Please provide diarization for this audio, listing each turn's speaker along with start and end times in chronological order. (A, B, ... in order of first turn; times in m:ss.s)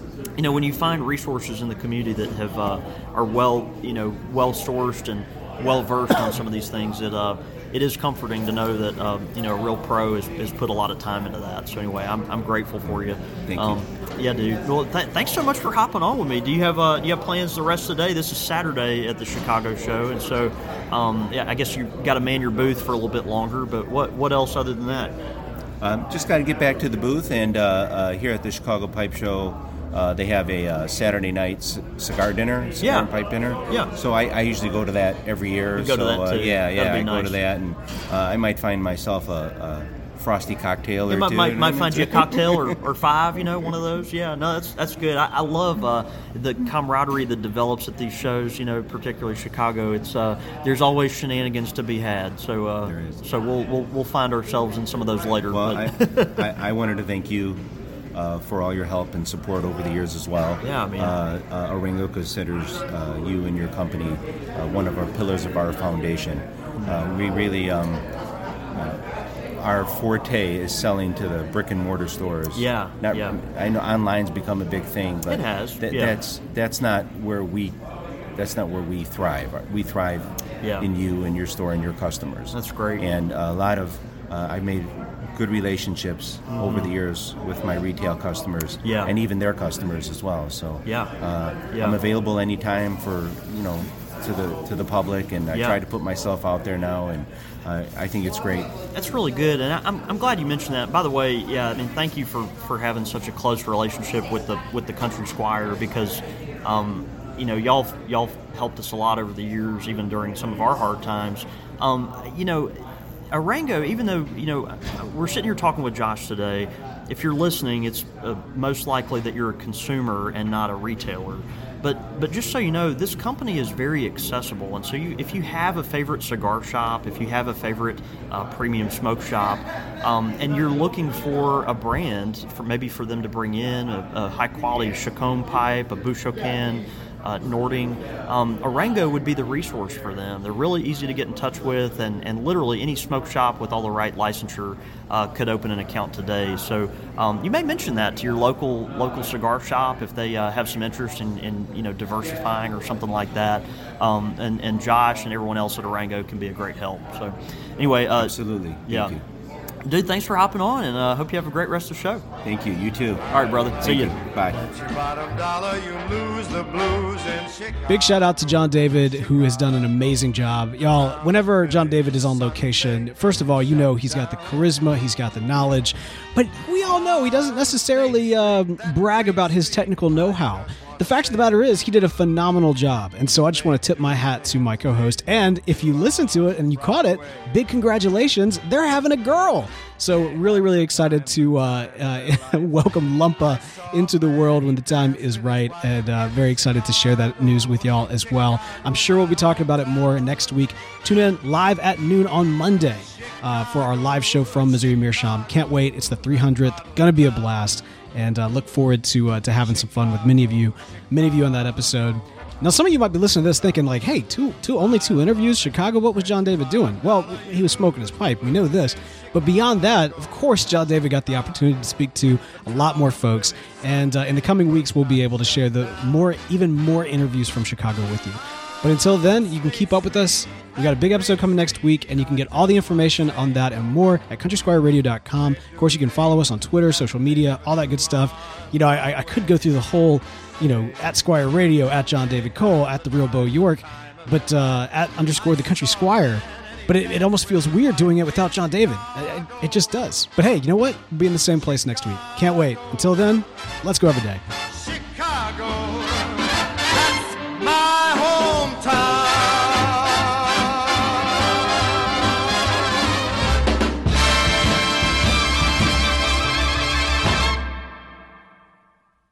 0:00.4-0:25.1 A
0:12.9-0:13.8 B
0:25.8-0:42.8 B
0:32.8-0:33.1 A
0:35.8-0:37.4 A
0:41.1-0:56.4 A
0:52.9-0:53.2 B
0:55.5-0:57.6 B
0:58.1-1:08.0 B
1:00.6-1:01.2 A
1:06.8-1:07.0 A
1:08.7-1:09.0 B
1:09.6-1:17.8 B
1:12.6-1:13.4 A
1:15.3-1:16.2 A
1:18.4-1:20.3 B
1:20.6-1:20.9 A
1:20.8-1:38.7 B
1:22.5-1:23.1 A
1:26.5-1:26.9 A
1:28.8-1:29.1 A
1:30.9-1:31.1 A
1:31.7-1:32.0 A
1:35.5-1:35.8 A
1:38.9-1:52.7 A
1:53.3-2:38.4 A
2:38.2-2:39.2 B
2:38.9-2:39.1 A
2:39.8-2:42.2 A
2:42.4-2:43.2 B
2:43.3-2:44.1 A
2:43.8-2:44.6 B
2:44.6-2:47.9 C
2:47.9-4:14.4 D
4:14.7-4:21.2 C